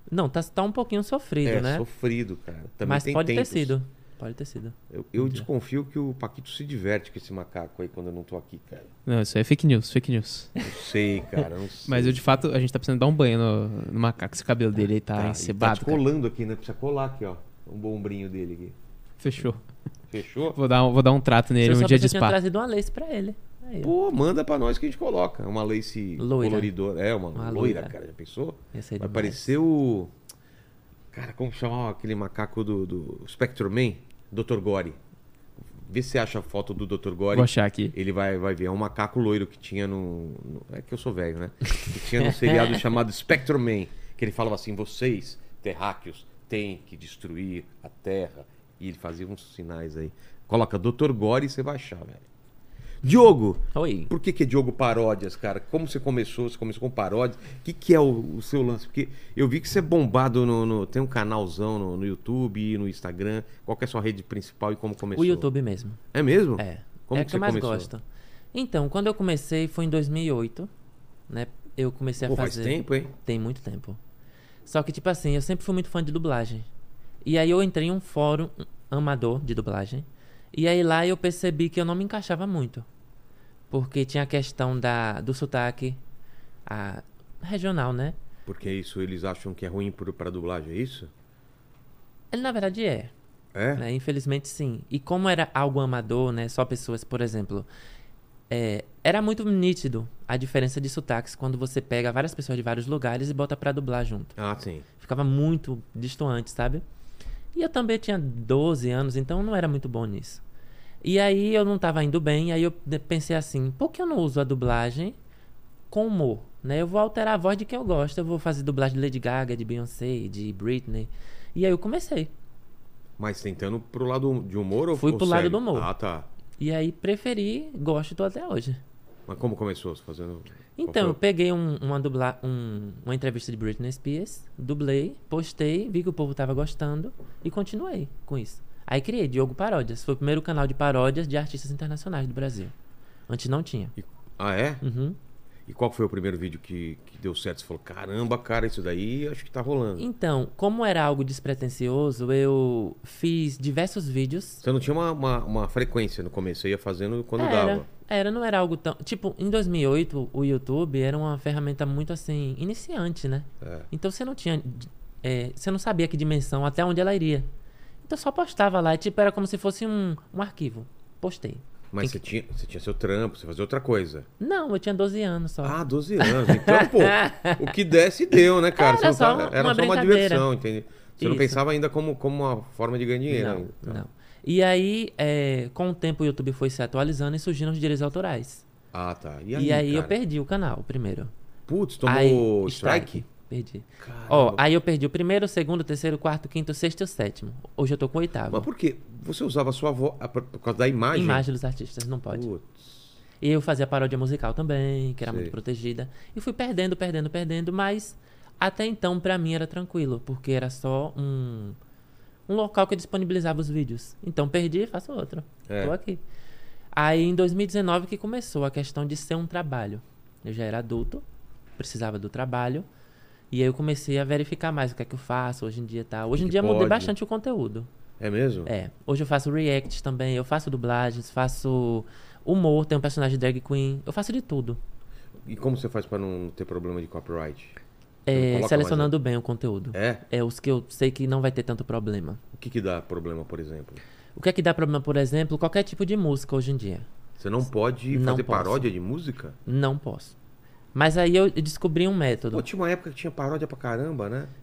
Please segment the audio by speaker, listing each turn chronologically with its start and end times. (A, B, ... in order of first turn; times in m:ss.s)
0:00.1-0:01.8 A
0:01.4-0:03.7 B
0:02.8-0:05.5 A
0:04.9-0:08.9 B
0:09.0-0:10.5 C
0:10.6-0:12.2 B
0:11.9-0:16.0 C
0:15.1-0:18.8 B
0:19.2-0:19.6 C
0:20.1-0:20.6 B
0:20.5-0:22.4 C
0:21.6-0:23.9 A
0:23.8-0:30.1 B
0:26.2-0:26.7 A
0:27.3-0:27.9 A
0:28.7-0:29.5 A
0:31.1-0:35.0 B
0:35.6-0:52.2 B
0:37.3-0:37.9 C
0:53.0-1:05.5 B
0:53.7-0:54.1 A
1:05.1-1:06.0 A
1:06.1-1:07.9 B
1:06.6-1:08.0 A
1:08.5-1:10.7 A
1:11.3-1:14.0 A
1:12.2-1:13.1 B
1:14.6-1:16.7 A
1:17.2-1:22.8 A
1:23.7-1:26.0 A
1:26.6-1:28.2 A
1:28.4-1:31.1 B
1:32.3-1:33.1 A
1:33.5-1:33.8 B
1:33.8-1:37.7 A
1:38.5-1:44.3 A
1:44.4-1:44.8 B
1:45.0-1:46.8 A
1:47.5-1:50.4 A
1:51.0-1:55.2 A
1:55.9-2:02.3 A
2:03.2-2:06.3 B
2:04.9-2:05.9 A
2:06.6-2:08.8 A
2:09.3-2:11.2 B
2:10.8-2:22.7 A
2:23.3-2:23.9 A
2:24.0-2:24.8 B
2:24.8-2:25.2 A
2:25.7-2:30.1 B
2:30.0-2:34.6 A
2:34.6-2:37.9 B
2:37.4-2:47.5 A
2:43.6-2:43.9 B
2:48.0-2:52.2 A
2:51.9-2:54.3 B
2:54.4-2:57.6 A
2:55.6-3:04.0 B
2:58.7-3:00.5 A
3:01.2-3:01.6 A
3:03.3-3:08.6 A
3:08.9-3:10.1 B
3:09.5-3:11.3 A
3:11.7-3:13.2 B
3:12.0-3:18.7 A
3:14.0-3:14.6 B
3:18.5-3:21.4 B
3:21.1-3:22.5 A
3:22.3-3:23.1 B
3:23.4-3:31.8 A
3:25.2-3:25.5 B
3:32.5-3:36.2 A
3:35.7-3:35.9 B
3:36.9-3:41.2 A
3:41.8-3:42.8 A
3:43.5-3:47.9 A
3:46.3-3:47.1 B
3:48.2-3:48.7 B
3:48.7-3:54.8 A
3:55.4-3:57.8 B
3:58.2-4:02.4 A
3:58.3-3:59.1 B
3:59.9-4:00.2 B
4:02.5-4:04.0 B
4:04.4-4:07.1 A
4:07.4-4:09.6 B
4:08.1-4:08.9 A
4:09.6-4:10.4 A
4:10.9-4:12.6 A
4:12.5-4:14.5 B